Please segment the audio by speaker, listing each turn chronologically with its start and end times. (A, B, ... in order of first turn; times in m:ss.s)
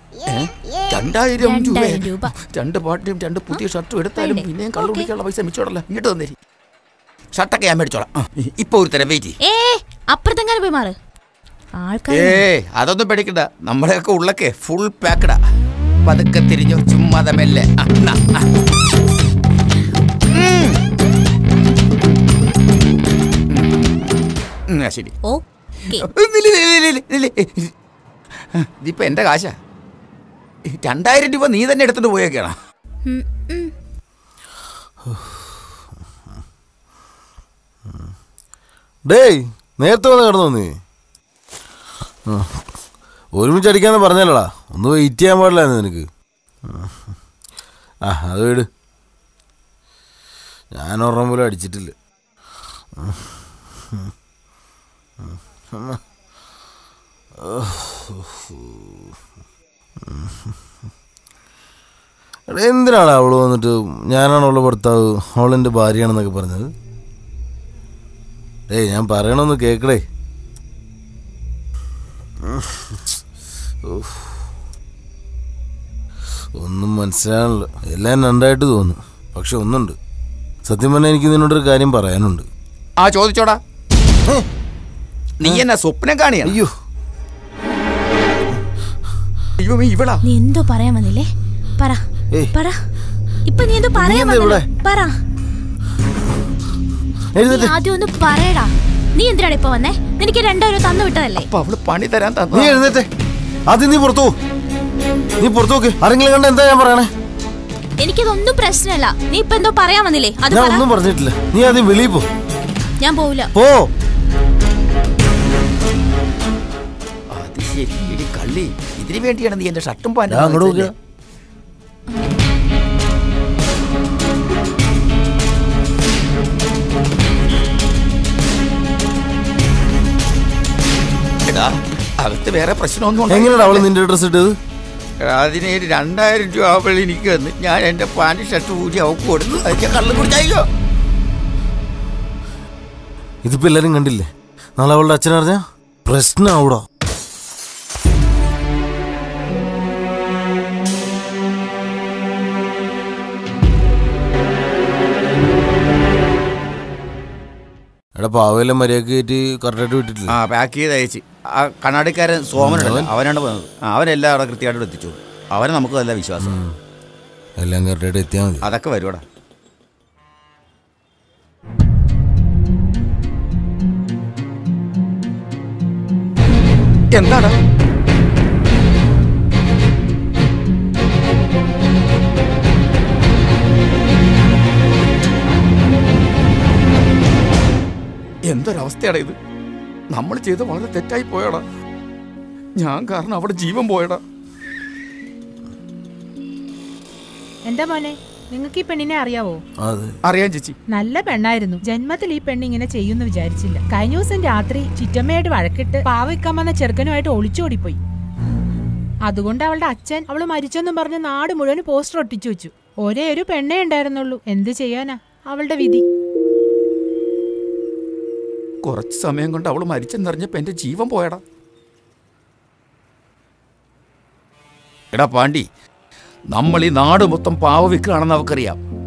0:00.3-0:06.4 A
0:01.4-0:02.3 B
0:04.2-0:05.1 B
0:07.4-0:09.4 A
0:09.4-0:11.0 B
0:11.8-0:12.4 B
0:12.1-0:15.4 A
0:16.1-0:18.5 A
0:20.3-0:20.8 A
0:24.7-0:25.1 A
0:25.2-0:26.0 B
0:26.1-0:27.7 A
0:28.6-0:29.5 A
0:30.7-0:32.6 A
0:33.1-0:33.7 B
0:35.1-0:35.5 C
0:37.9-0:38.1 C
0:39.1-0:40.7 C
0:42.3-0:42.6 C
0:43.4-0:46.1 C
0:46.7-0:47.1 C
0:48.1-0:48.7 C
0:50.7-0:51.9 C
0:53.0-0:53.4 C
0:55.2-0:56.0 C
0:57.4-0:59.0 C
1:00.0-1:00.6 C
1:02.5-1:06.7 C
1:08.7-1:10.0 C
1:12.4-1:12.9 C
1:13.8-1:14.3 C
1:16.6-1:20.0 C
1:20.7-1:22.5 C
1:23.0-1:23.6 A
1:25.4-1:26.6 A
1:26.4-1:26.7 C
1:29.6-1:30.2 A
1:30.2-1:32.0 B
1:33.5-1:35.1 B
1:34.0-1:34.6 C
1:37.4-1:37.7 C
1:37.4-1:41.5 B
1:41.4-1:42.8 A
1:42.5-1:43.1 C
1:43.7-1:44.3 C
1:45.4-1:47.1 C
1:48.0-1:50.8 B
1:50.5-1:52.3 C
1:53.0-1:53.5 B
1:57.3-2:00.9 A
2:00.3-2:00.9 C
2:11.5-2:13.8 A
2:13.3-2:14.5 C
2:15.2-2:20.6 A
2:23.4-2:26.8 C
2:38.2-2:40.3 C
2:40.3-2:46.6 A
2:42.6-2:43.1 C
2:46.4-2:46.8 C
2:47.6-2:48.6 C
2:48.6-2:49.2 A
2:57.1-2:57.6 A
3:08.5-3:09.4 A
3:10.1-3:11.6 A
3:12.8-3:14.2 A
3:17.7-3:19.6 D
3:19.8-3:20.1 C
3:20.3-3:20.8 A
3:20.9-3:28.0 D
3:29.3-3:36.0 D
3:38.8-3:41.4 A
3:45.1-3:45.6 A
3:46.5-3:48.8 A